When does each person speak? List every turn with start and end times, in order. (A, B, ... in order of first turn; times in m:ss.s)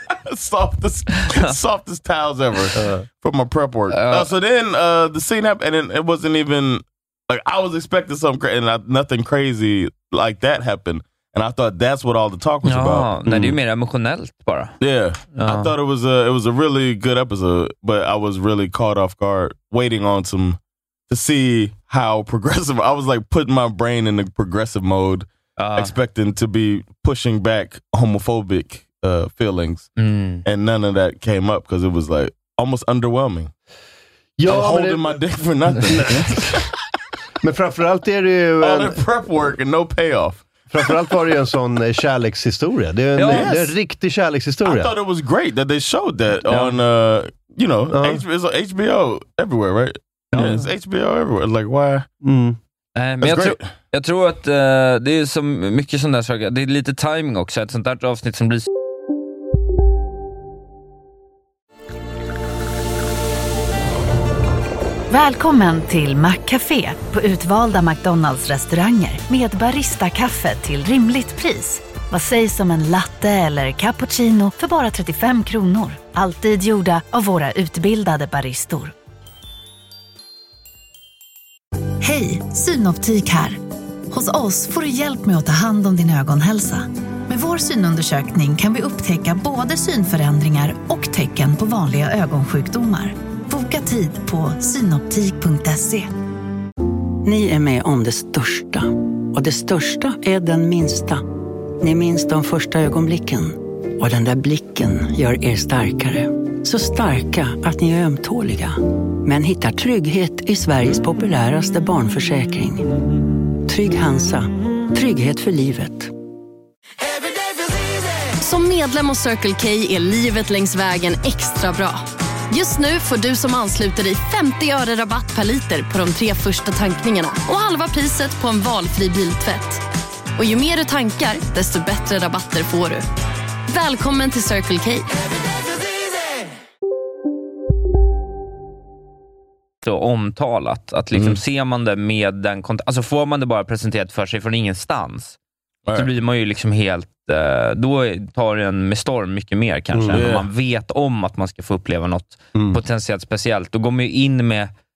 0:00.2-0:13.1 A
0:01.2-0:01.5 B
0:02.7-0:03.0 C
0:03.9-0:04.3 B
0:12.6-0:14.8 B
0:13.3-0:13.6 C
0:14.8-0:29.9 A
0:15.3-0:15.7 B
0:25.6-0:25.9 B
0:30.0-0:30.4 B
0:30.4-0:33.5 A
0:34.4-0:35.2 C
0:34.4-0:36.6 A
0:35.8-0:36.7 C
0:37.4-0:39.0 C
0:38.6-0:40.9 A
0:40.7-0:44.9 C
0:43.2-0:43.5 B
0:43.3-0:43.7 A
0:44.6-0:52.1 A
0:47.9-0:48.2 C
0:50.3-0:50.6 B
0:50.3-0:50.6 C
0:52.2-0:52.6 C
0:53.0-0:58.7 B
0:53.2-0:53.6 A
1:05.1-1:18.9 D
1:22.0-1:23.6 D
1:24.1-1:36.1 D
1:37.2-1:41.2 E
1:41.8-1:52.9 E
1:53.6-1:56.1 E
1:58.4-2:09.8 F
2:10.4-2:13.0 F
2:13.7-2:15.1 F
2:19.8-2:25.4 B
2:21.1-2:21.4 A
2:25.9-2:34.7 B
2:29.9-2:30.3 C
2:30.1-2:30.5 A
2:32.5-2:32.8 C